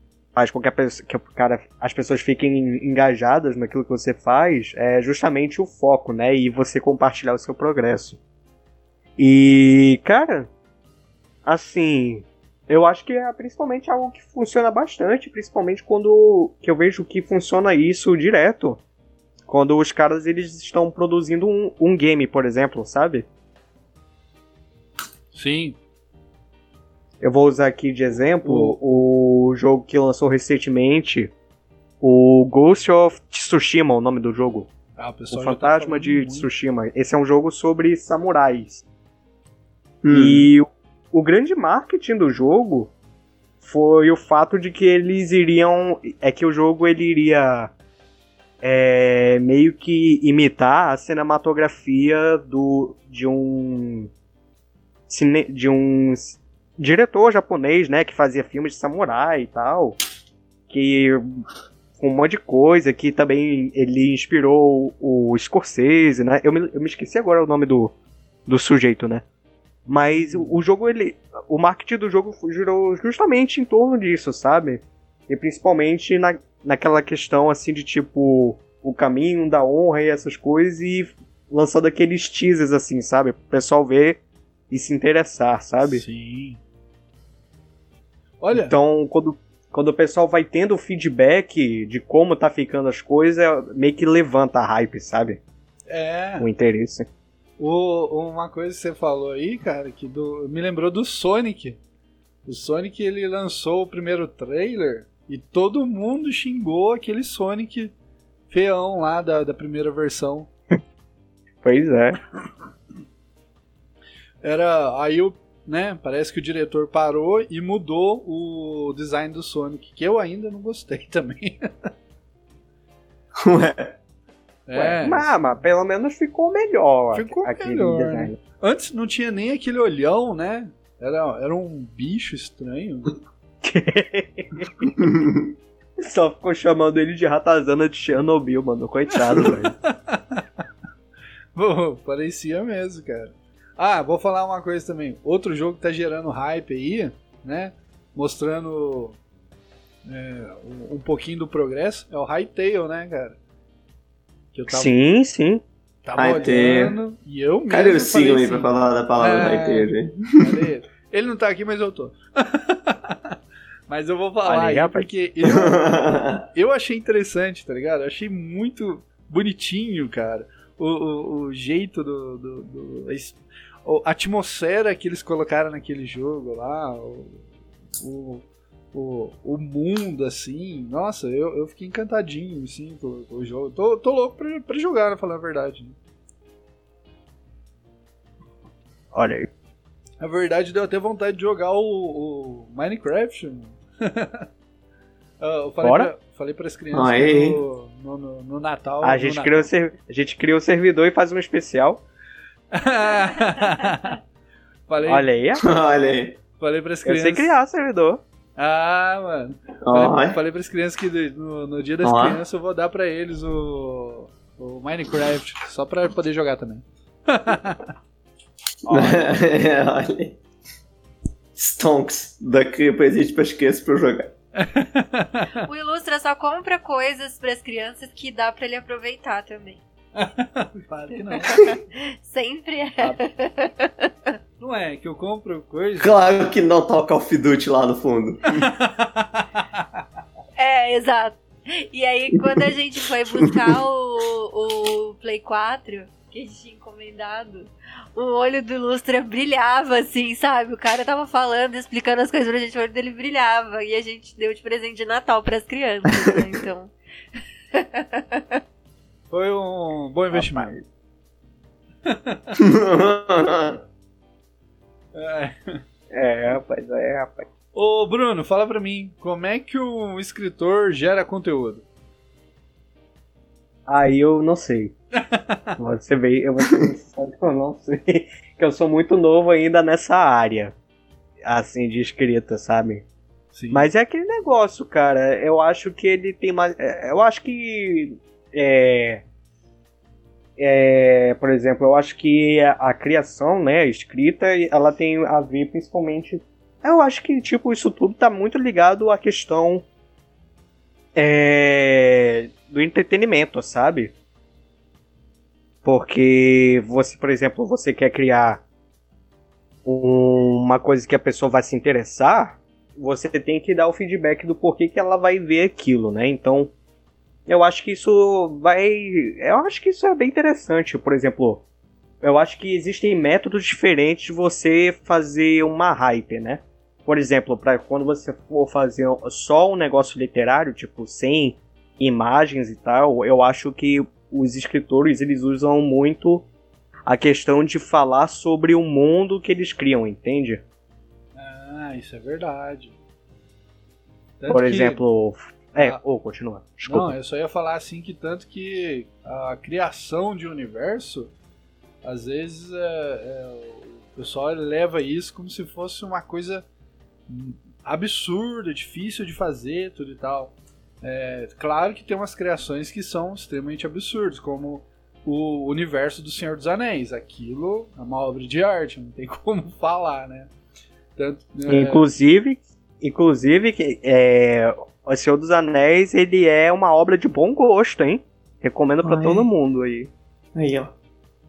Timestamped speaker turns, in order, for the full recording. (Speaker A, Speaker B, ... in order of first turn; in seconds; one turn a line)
Speaker A: 0.3-8.2
Speaker A: 9.2-10.5
Speaker A: 11.4-18.8
Speaker A: 19.5-23.3
Speaker B: 25.3-25.8
Speaker A: 27.2-31.3
Speaker B: 28.4-28.8
Speaker A: 32.0-34.7
Speaker B: 35.0-36.5
Speaker A: 35.3-38.8
Speaker C: 40.0-40.5
Speaker A: 40.1-42.9
Speaker A: 43.6-47.7
Speaker A: 48.6-54.1
Speaker A: 55.1-60.0
Speaker A: 60.7-61.5
Speaker A: 62.0-67.9
Speaker A: 68.5-69.2
Speaker A: 69.9-86.0
Speaker B: 70.1-70.5
Speaker B: 85.8-86.6
Speaker B: 88.4-88.8
Speaker A: 88.5-95.4
Speaker B: 95.9-96.5
Speaker A: 96.4-97.1
Speaker B: 97.6-101.8
Speaker B: 102.5-107.9
Speaker B: 108.5-110.5
Speaker A: 111.6-112.2
Speaker B: 114.4-121.9
Speaker C: 123.4-124.0
Speaker B: 124.7-125.4
Speaker A: 124.7-128.4
Speaker B: 127.1-133.2
Speaker A: 133.6-135.1
Speaker C: 135.0-135.4
Speaker A: 136.0-139.7
Speaker B: 139.8-140.4
Speaker B: 141.6-149.2
Speaker B: 150.1-153.4
Speaker B: 154.5-154.9
Speaker A: 154.7-155.6
Speaker B: 156.0-163.4
Speaker C: 156.2-157.0
Speaker C: 157.7-160.6
Speaker B: 163.9-177.4
Speaker A: 164.4-165.1
Speaker C: 165.4-166.4
Speaker B: 178.0-186.0
Speaker A: 189.1-189.5
Speaker B: 190.2-194.5
Speaker B: 195.4-199.7
Speaker A: 195.8-196.1
Speaker C: 196.9-197.6
Speaker A: 199.0-202.0
Speaker B: 202.7-204.2
Speaker B: 204.9-205.3
Speaker A: 205.1-205.7
Speaker C: 205.6-206.4
Speaker B: 206.6-207.5
Speaker A: 207.1-208.2
Speaker B: 208.6-217.9
Speaker C: 209.8-210.4
Speaker C: 212.0-212.4
Speaker B: 218.8-219.3
Speaker C: 218.9-220.4
Speaker C: 221.6-224.3
Speaker B: 224.6-225.6
Speaker D: 225.5-229.8
Speaker B: 230.2-231.7
Speaker D: 231.5-234.4
Speaker B: 234.6-236.2
Speaker C: 236.0-238.7
Speaker B: 238.6-239.8
Speaker D: 240.6-256.9
Speaker C: 243.4-243.8
Speaker C: 256.1-256.4
Speaker D: 257.7-258.6
Speaker B: 259.3-260.8
Speaker A: 260.3-260.9
Speaker B: 262.1-262.5
Speaker C: 262.6-263.8
Speaker B: 265.1-265.8
Speaker A: 266.1-267.5
Speaker B: 267.7-271.8
Speaker A: 273.9-274.9
Speaker B: 275.2-275.7
Speaker A: 275.8-280.7
Speaker A: 281.4-283.1
Speaker B: 283.5-283.9
Speaker A: 283.7-289.2
Speaker A: 290.6-299.9
Speaker A: 301.1-304.1
Speaker A: 305.9-308.6
Speaker A: 309.9-316.7
Speaker A: 317.5-321.6
Speaker A: 322.2-336.5
Speaker A: 337.1-340.6
Speaker B: 341.4-343.0
Speaker B: 344.4-345.0
Speaker A: 344.5-347.1
Speaker B: 346.9-351.3
Speaker B: 352.0-356.6
Speaker B: 357.3-370.5
Speaker B: 371.2-372.1
Speaker A: 371.7-380.1
Speaker C: 379.0-379.5
Speaker C: 380.6-380.9